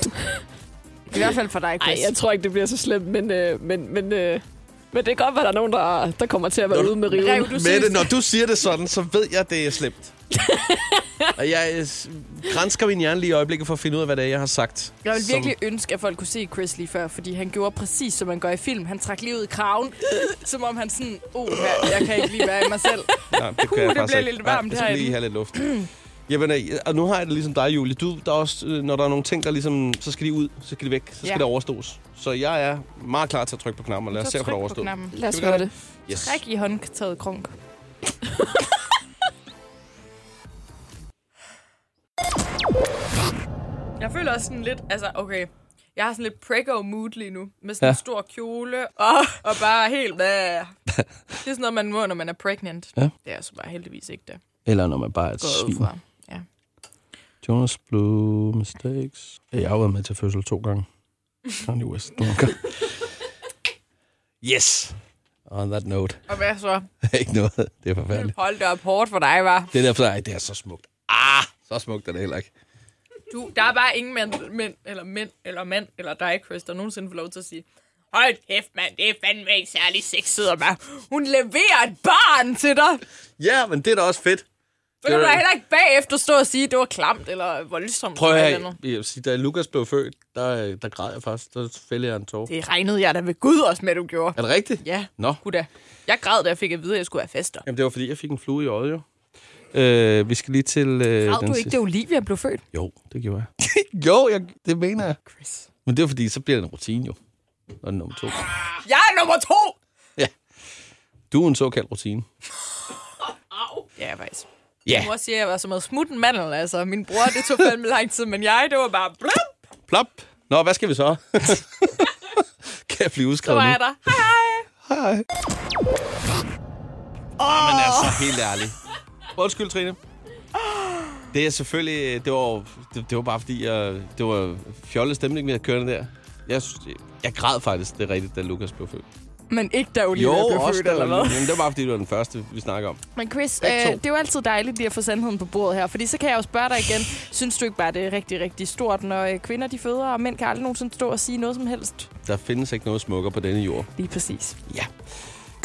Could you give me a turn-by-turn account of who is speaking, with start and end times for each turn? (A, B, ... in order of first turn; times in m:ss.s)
0:01.1-0:02.1 A
0:01.8-0:07.5 B
0:06.7-0:10.1 C
0:07.1-0:08.1 A
0:10.5-0:11.0 B
0:11.4-0:15.5 C
0:15.0-0:25.8 A
0:23.3-0:36.4 C
0:34.1-0:35.2 A
0:35.1-0:35.7 B
0:36.1-0:37.5 A
0:44.0-0:50.7 A
0:51.4-0:54.4 A
0:54.6-0:55.9 C
0:55.4-0:56.4 A
0:57.4-1:00.8 C
1:01.5-1:03.1 C
1:04.4-1:06.2 C
1:06.3-1:06.8 A
1:07.0-1:08.3 C
1:08.1-1:09.7 A
1:09.7-1:12.5 C
1:13.3-1:23.0 A
1:23.4-1:24.4 C
1:25.0-1:25.4 C
1:25.0-1:28.7 A
1:28.2-1:32.5 C
1:32.5-1:37.6 A
1:34.4-1:35.4 C
1:37.6-1:39.0 C
1:39.7-1:41.7 C
1:41.2-1:42.6 A
1:42.7-1:45.2 C
1:45.3-1:45.6 A
1:45.8-1:47.2 C
1:47.8-1:48.7 C
1:48.8-1:49.8 A
1:51.3-1:52.3 C
1:54.0-1:59.5 A
1:59.9-2:02.1 C
2:02.9-2:03.8 C
2:03.4-2:04.7 A
2:04.8-2:05.2 C
2:07.4-2:08.3 A
2:07.4-2:08.8 C
2:09.3-2:10.0 C
2:10.6-2:11.0 A
2:11.3-2:19.1 C
2:19.5-2:21.5 A
2:20.1-2:23.0 C
2:23.2-2:32.1 A
2:23.6-2:24.0 C
2:32.2-2:33.9 C
2:34.0-2:34.6 A